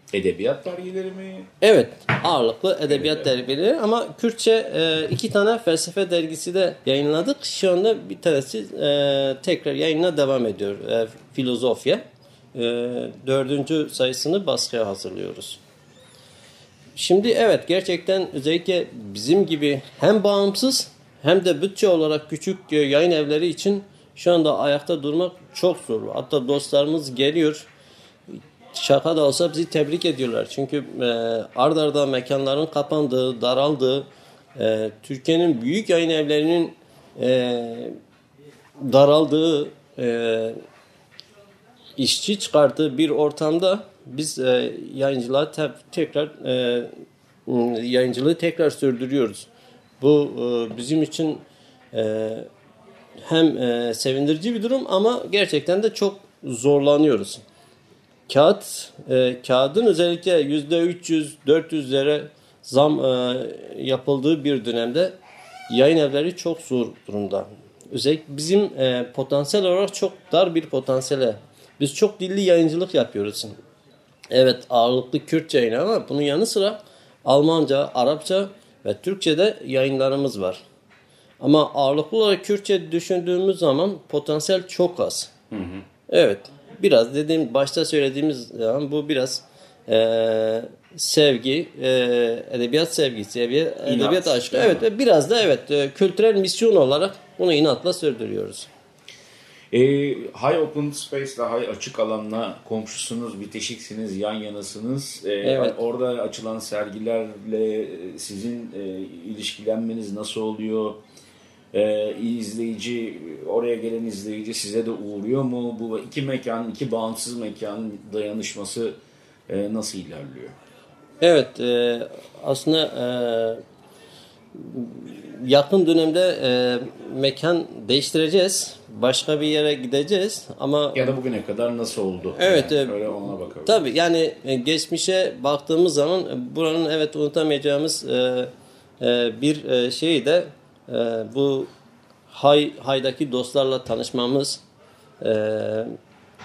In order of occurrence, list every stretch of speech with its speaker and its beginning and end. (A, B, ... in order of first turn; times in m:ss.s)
0:00.1-0:01.5 A
0:01.6-0:12.0 B
0:02.9-0:03.3 A
0:12.5-0:15.6 B
0:17.0-0:27.7 B
0:28.7-0:38.0 B
0:38.8-0:40.6 B
0:42.0-0:46.9 B
0:47.4-0:49.5 B
0:50.0-0:52.5 B
0:53.2-0:57.4 B
0:58.3-1:05.2 B
1:05.7-1:13.5 B
1:14.3-1:20.6 B
1:21.4-1:25.3 B
1:25.5-1:25.8 A
1:26.1-1:38.7 B
1:33.8-1:34.8 A
1:39.7-1:51.0 A
1:45.4-1:45.7 B
1:51.7-1:59.0 A
1:59.5-2:00.5 A
2:01.2-2:03.6 B
2:04.5-2:11.0 B
2:10.9-2:13.8 A
2:12.4-2:13.0 B
2:13.6-2:21.7 B
2:22.3-2:24.6 B
2:25.2-2:25.9 B